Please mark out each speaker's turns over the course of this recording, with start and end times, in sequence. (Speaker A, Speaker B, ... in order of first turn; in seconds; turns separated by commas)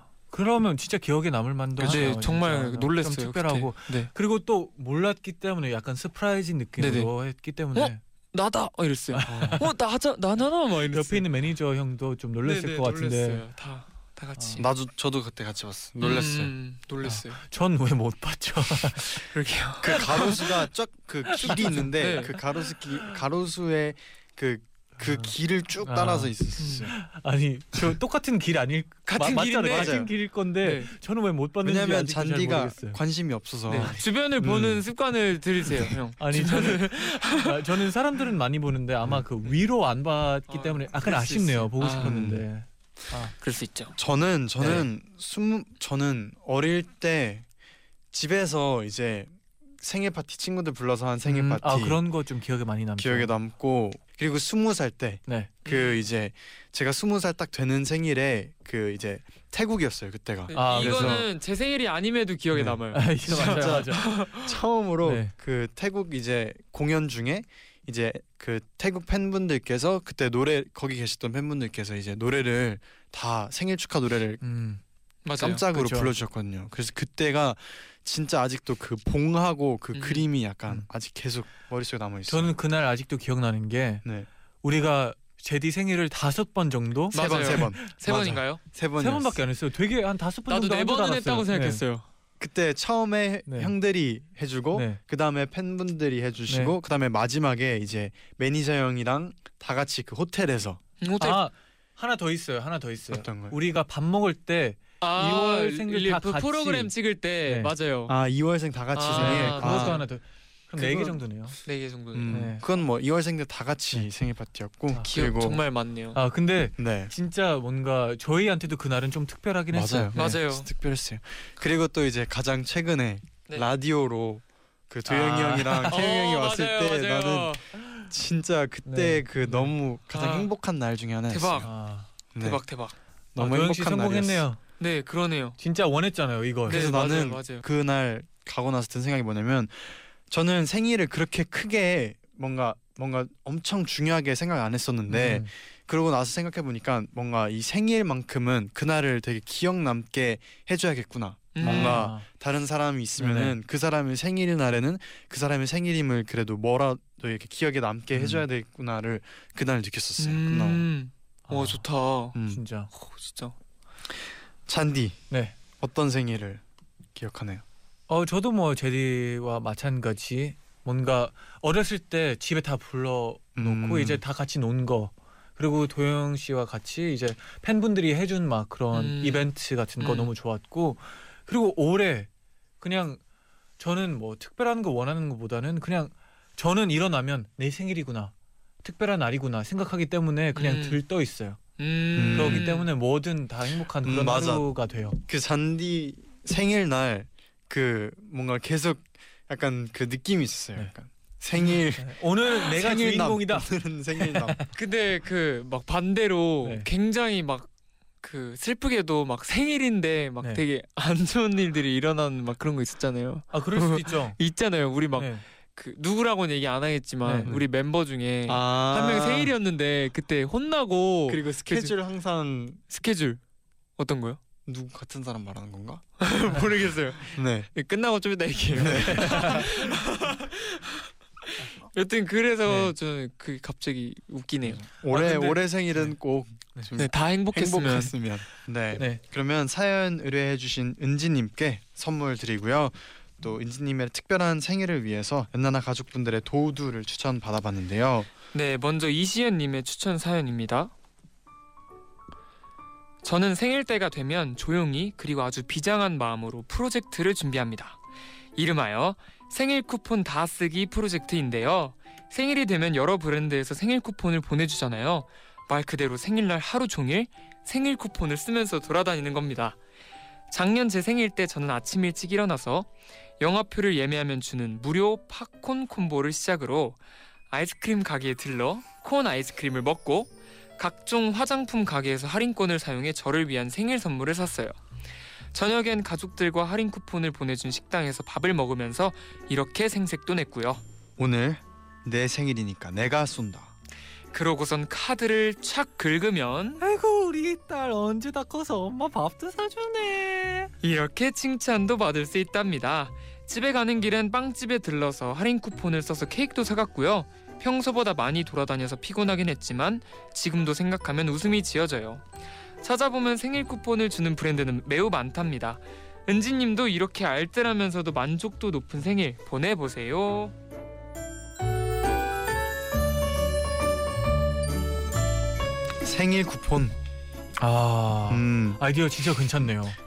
Speaker A: 0.3-8.0, Speaker B: 1.8-2.1, Speaker C: 1.8-4.1, Speaker C: 6.8-7.1, Speaker C: 7.7-11.3, Speaker A: 9.1-9.7, Speaker B: 9.3-9.7, Speaker A: 10.9-13.4, Speaker C: 12.4-14.7, Speaker A: 14.3-14.6, Speaker B: 14.6-16.5, Speaker C: 16.0-17.4, Speaker A: 17.0-19.2, Speaker C: 19.1-20.6, Speaker B: 19.8-26.9, Speaker A: 21.3-21.9, Speaker C: 21.4-22.4, Speaker A: 25.0-26.3, Speaker C: 26.6-26.9, Speaker A: 26.9-33.0, Speaker C: 29.1-30.0, Speaker B: 29.7-30.1, Speaker C: 30.6-30.9, Speaker B: 31.6-34.8, Speaker C: 33.7-37.8, Speaker A: 33.7-34.0, Speaker A: 36.2-43.3, Speaker C: 40.5-42.2, Speaker B: 42.0-42.4, Speaker C: 43.4-43.9, Speaker B: 44.0-47.5, Speaker A: 44.6-44.8, Speaker B: 48.1-52.0, Speaker A: 51.2-53.3, Speaker B: 53.0-61.3, Speaker A: 55.3-55.5, Speaker C: 55.6-56.0, Speaker C: 60.5-64.5, Speaker A: 60.5-61.2, Speaker A: 62.5-64.1, Speaker B: 63.2-74.4, Speaker A: 65.0-65.3, Speaker A: 74.4-74.8, Speaker C: 75.2-75.6, Speaker B: 75.4-82.5, Speaker A: 75.7-76.1, Speaker C: 79.9-80.2, Speaker A: 82.3-84.0, Speaker A: 84.6-88.0, Speaker C: 87.1-88.6, Speaker B: 87.1-89.4, Speaker A: 89.0-91.8, Speaker C: 90.5-92.0, Speaker B: 92.4-100.8, Speaker A: 93.5-93.7, Speaker A: 94.7-95.0, Speaker A: 96.5-96.8, Speaker C: 101.0-101.4, Speaker A: 101.2-106.9, Speaker B: 103.1-103.6, Speaker C: 105.0-108.1, Speaker A: 107.5-107.7, Speaker B: 108.1-110.0, Speaker C: 108.9-110.0, Speaker A: 109.1-111.6, Speaker C: 110.8-112.5, Speaker B: 112.1-115.6, Speaker A: 112.3-112.6, Speaker C: 115.1-116.2, Speaker A: 116.1-120.2, Speaker B: 116.8-117.1, Speaker B: 119.7-131.7, Speaker C: 120.1-120.7, Speaker A: 125.0-126.0, Speaker C: 125.9-127.6, Speaker A: 127.8-128.1, Speaker A: 128.8-129.7, Speaker C: 130.1-130.5, Speaker C: 131.3-131.7, Speaker A: 131.6-132.1, Speaker B: 132.3-132.6, Speaker C: 132.4-132.9, Speaker B: 133.3-134.4, Speaker A: 133.4-134.6, Speaker C: 134.8-135.6, Speaker A: 135.6-136.8, Speaker C: 136.7-137.6, Speaker B: 136.7-160.8, Speaker A: 145.1-145.5, Speaker C: 151.5-152.1, Speaker A: 151.6-152.2, Speaker A: 153.2-153.6, Speaker A: 158.1-158.4, Speaker C: 160.2-162.4, Speaker A: 161.5-161.8, Speaker B: 162.3-162.6, Speaker A: 162.5-162.9, Speaker C: 162.9-163.5, Speaker B: 164.7-165.2, Speaker A: 165.3-165.5, Speaker B: 165.8-166.6, Speaker B: 167.1-167.6, Speaker A: 168.1-182.3, Speaker B: 173.6-174.2, Speaker C: 178.9-180.3, Speaker A: 182.8-183.2, Speaker A: 183.8-191.6, Speaker C: 190.5-191.0, Speaker C: 191.8-192.9, Speaker B: 192.1-192.7, Speaker A: 192.3-195.2, Speaker B: 194.0-194.7, Speaker B: 195.2-204.6, Speaker A: 201.6-204.7, Speaker C: 204.7-207.7, Speaker A: 206.6-206.9, Speaker C: 208.2-221.9, Speaker A: 213.5-214.4, Speaker A: 215.2-215.4, Speaker A: 217.2-217.5, Speaker B: 218.5-219.5, Speaker B: 221.3-222.8, Speaker C: 222.9-223.4, Speaker C: 224.0-224.4, Speaker B: 224.7-226.0, Speaker C: 226.2-234.8, Speaker B: 227.3-227.7, Speaker B: 228.8-229.6, Speaker A: 228.8-229.7, Speaker A: 232.7-232.9, Speaker B: 234.9-248.3, Speaker A: 235.1-236.1, Speaker C: 236.9-238.1, Speaker A: 238.9-239.2, Speaker C: 248.5-250.9, Speaker C: 253.2-258.0, Speaker C: 258.6-269.8, Speaker C: 270.5-272.9, Speaker C: 273.4-277.0, Speaker C: 277.5-284.7, Speaker C: 285.5-290.8, Speaker B: 291.2-293.7, Speaker C: 294.3-296.8, Speaker A: 296.8-300.7, Speaker C: 300.8-312.2, Speaker C: 312.8-320.5, Speaker B: 326.0-326.9, Speaker A: 327.6-330.0, Speaker B: 328.3-328.8